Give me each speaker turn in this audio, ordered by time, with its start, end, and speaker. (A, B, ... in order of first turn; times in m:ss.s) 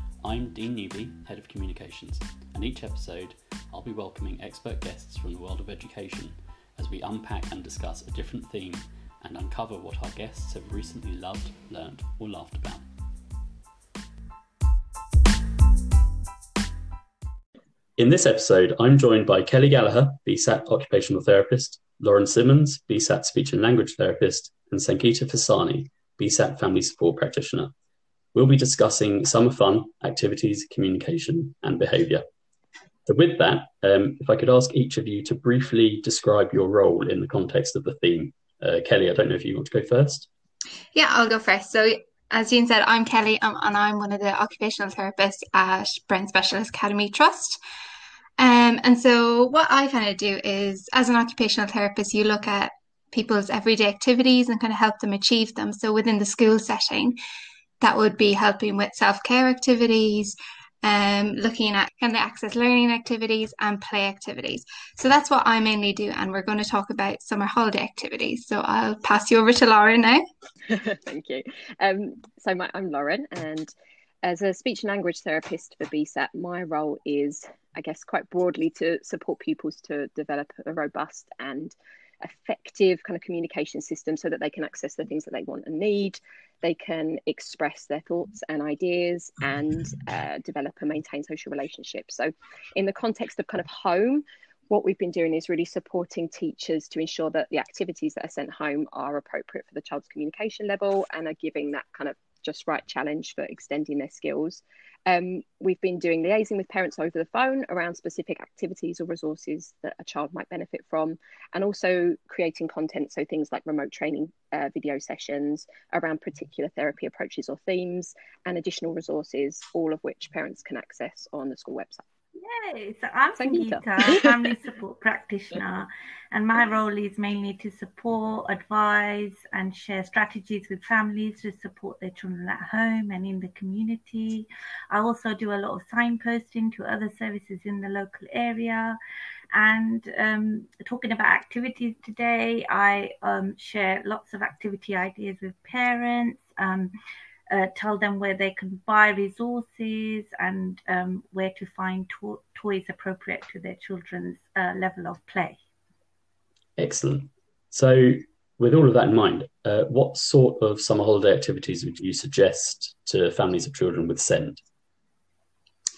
0:00.2-0:12.9 A
0:18.0-0:27.7 A
0:28.3-0:32.2 A
0:33.0-0:40.3 A
0:40.9-0:47.6 B
0:48.4-0:57.2 B
0:57.8-1:10.2 B
1:10.7-1:13.7 C
1:14.2-2:02.0 C
2:02.4-2:19.0 D
2:03.4-2:04.4 C
2:19.5-2:26.9 D
2:27.5-2:35.6 D
2:36.8-2:44.6 A